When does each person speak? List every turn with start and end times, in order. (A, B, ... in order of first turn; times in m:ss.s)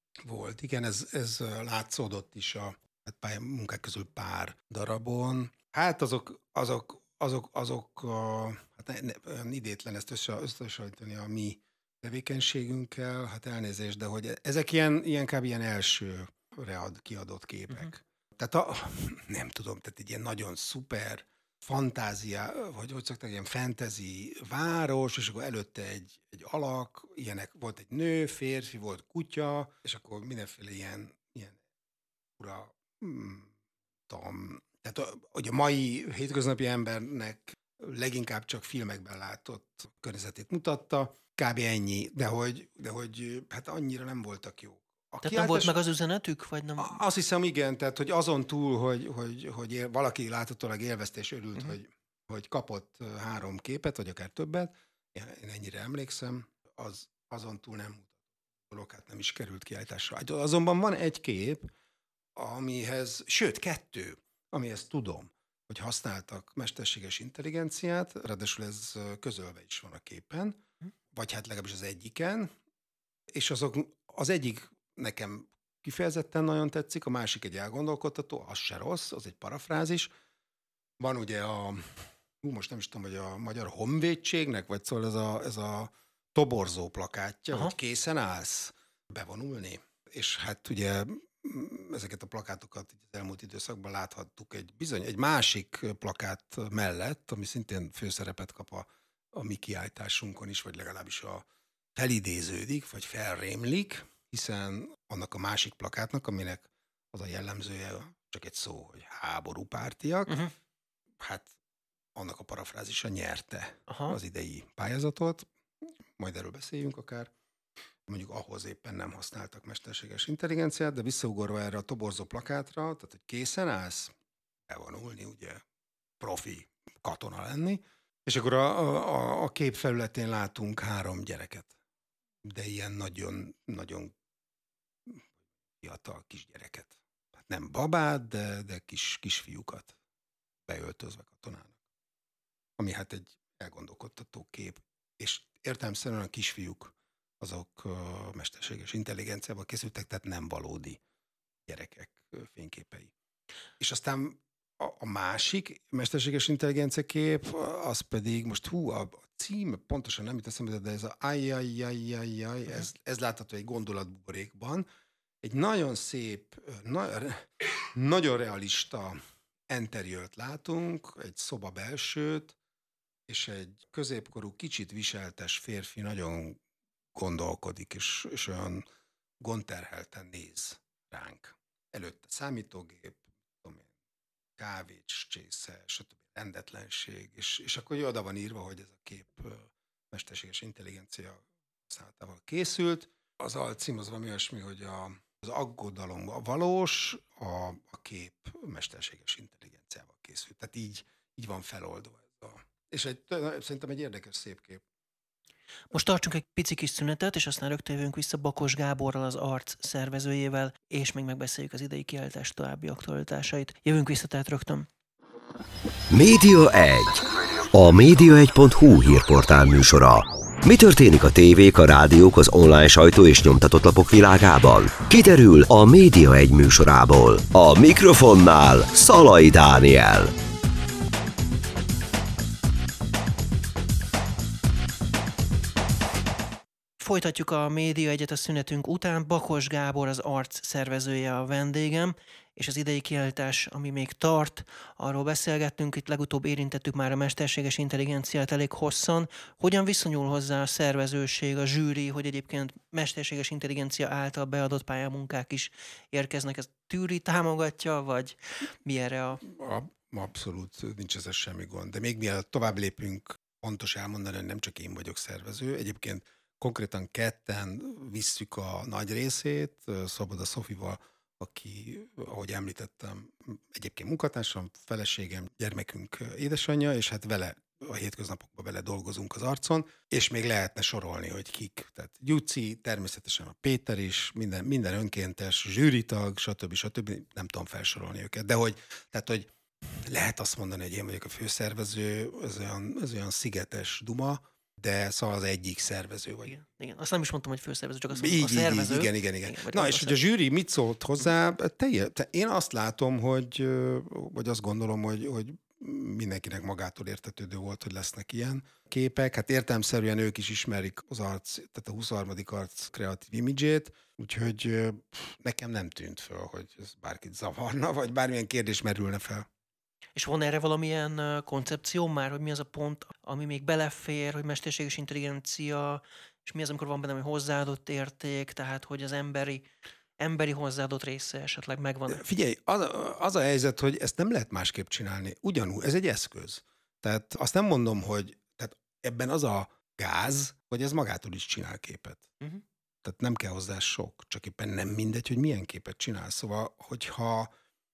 0:00.2-0:31.6 A
0:32.4-0:33.5 A
0:34.1-0:45.8 A
0:45.2-0:47.0 B
0:46.8-0:58.2 A
0:58.7-1:01.7 A
1:02.4-1:12.5 A
1:13.3-1:20.1 A
1:21.0-1:50.4 A
1:51.2-1:51.5 A
1:52.2-1:55.5 A
1:53.9-1:54.2 B
1:56.2-1:57.3 A
1:58.1-2:04.1 A
2:04.7-2:05.6 A
2:06.2-2:11.7 A
2:12.4-2:14.1 A
2:15.8-2:20.0 A
2:20.7-2:21.8 A
2:22.8-2:31.0 A
2:31.7-2:33.1 A
2:33.8-2:44.9 A
2:45.4-2:52.6 A
2:53.3-2:56.6 A
2:57.2-2:58.8 A
2:59.4-3:03.9 A
3:04.6-3:24.8 A
3:25.9-3:34.9 B
3:36.1-3:50.3 C
3:57.0-4:19.4 B
4:19.4-4:56.6 A
4:56.5-5:00.2 B
4:58.1-5:19.5 A
5:20.2-5:29.7 B
5:30.2-5:32.2 B
5:32.1-5:42.5 A
5:43.0-5:47.5 A